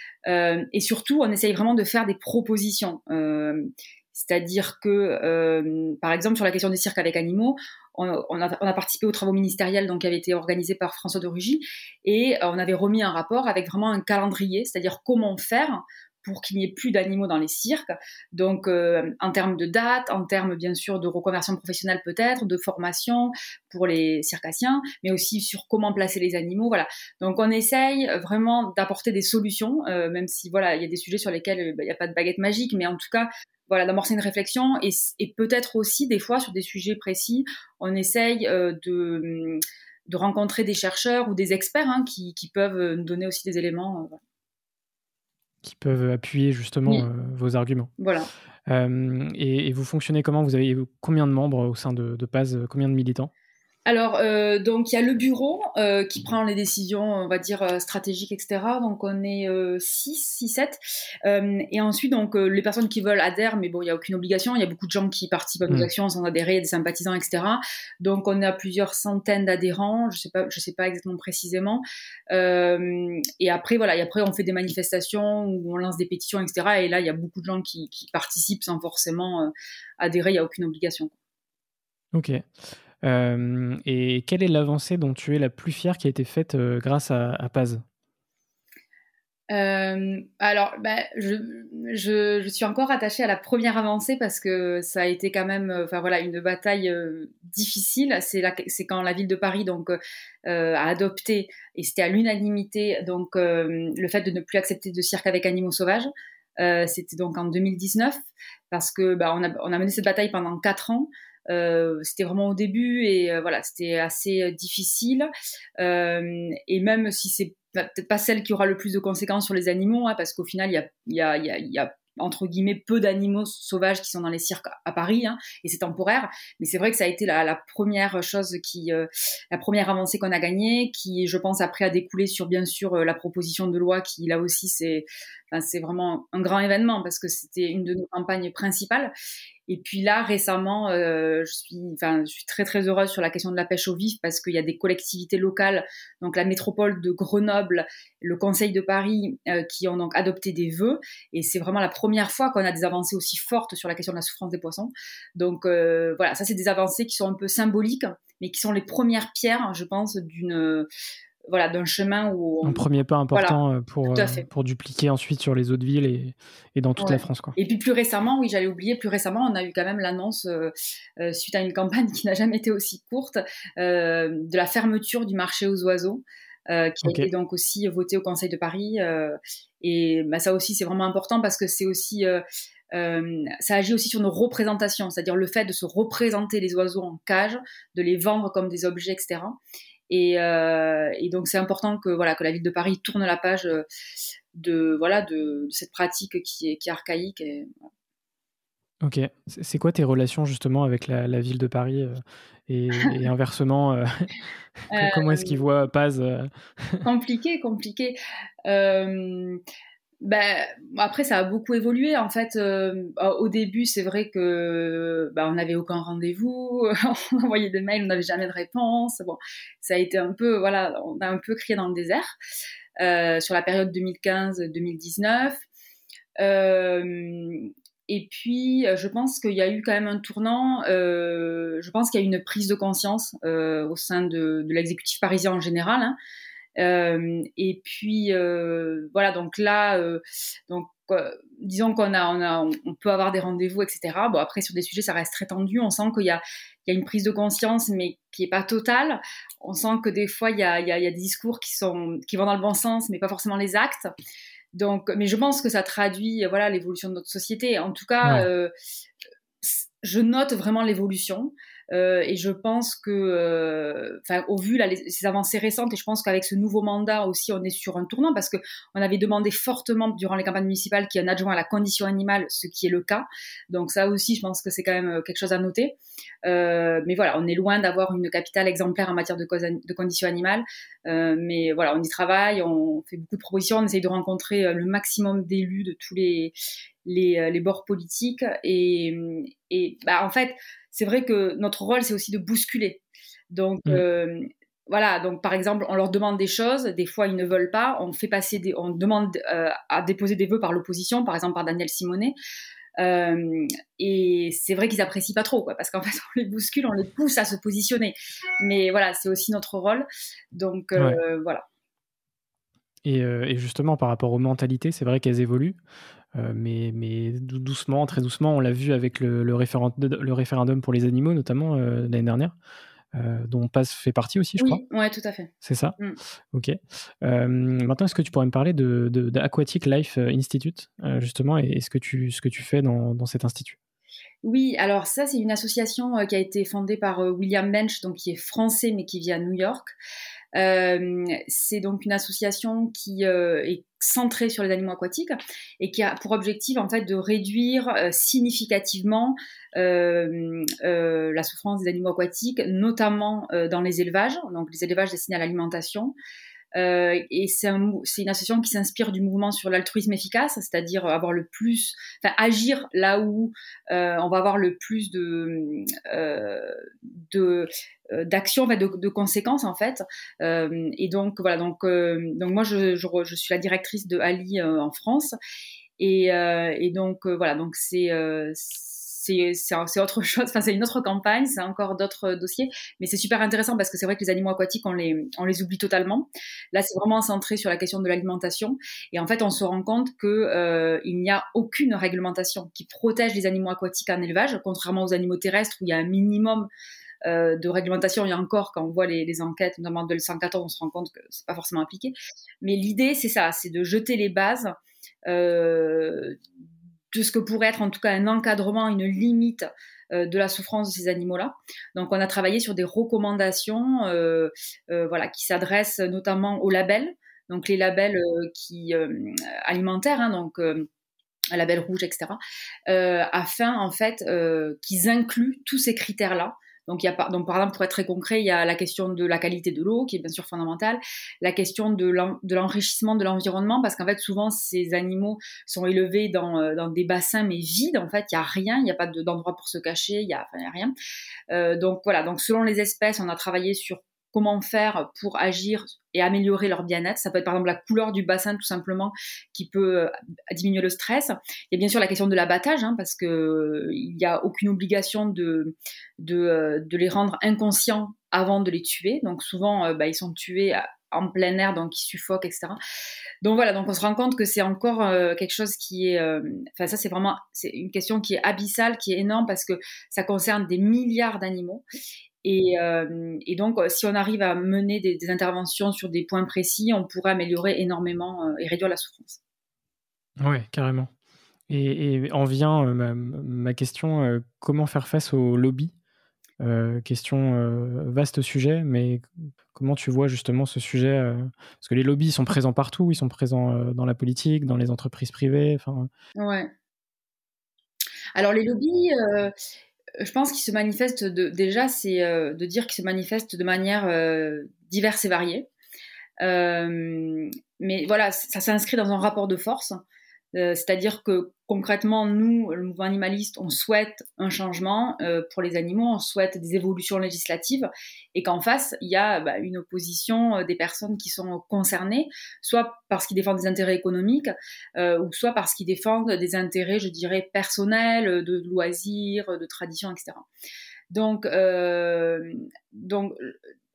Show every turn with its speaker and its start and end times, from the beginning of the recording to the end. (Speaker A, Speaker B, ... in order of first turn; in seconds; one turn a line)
Speaker A: 0.2-44.2
Speaker B: 45.6-47.9
Speaker A: 48.0-48.3
Speaker B: 48.7-53.3
Speaker A: 53.9-81.1
Speaker B: 82.1-82.5
Speaker B: 83.0-87.8
Speaker A: 89.5-108.2
Speaker A: 108.7-115.3
Speaker A: 115.8-139.1
Speaker A: 139.7-160.9
Speaker A: 161.5-162.8
Speaker B: 162.6-167.5
Speaker A: 164.1-164.4
Speaker A: 167.0-182.4
Speaker A: 182.9-189.6
Speaker A: 190.1-193.8
Speaker A: 194.5-197.9
Speaker B: 199.0-204.3
Speaker A: 204.9-205.6
Speaker B: 204.9-207.0
Speaker A: 207.0-209.6
Speaker A: 210.2-222.3
Speaker A: 223.0-225.6
Speaker A: 226.4-236.2
Speaker A: 236.8-254.1
Speaker A: 254.7-258.7
Speaker A: 259.6-302.3
Speaker A: 303.0-311.6
Speaker B: 313.0-315.8
Speaker B: 316.3-322.6
Speaker B: 323.1-324.8
Speaker A: 324.6-326.2
Speaker B: 325.6-325.9
Speaker B: 326.5-333.8
Speaker A: 334.4-339.9
Speaker A: 340.5-356.1
Speaker A: 356.7-375.3
Speaker A: 376.0-396.7
Speaker A: 397.2-404.7
Speaker A: 405.3-406.4
Speaker A: 407.1-420.9
Speaker A: 421.5-440.9
Speaker A: 441.5-462.8
Speaker A: 463.4-471.8
Speaker A: 472.4-479.4
Speaker B: 480.4-481.1
Speaker B: 481.7-485.9
Speaker B: 486.6-496.1
Speaker A: 496.4-496.7
Speaker A: 498.4-499.5
Speaker A: 500.2-505.7
Speaker A: 506.4-510.0
Speaker A: 510.5-530.5
Speaker A: 531.1-533.6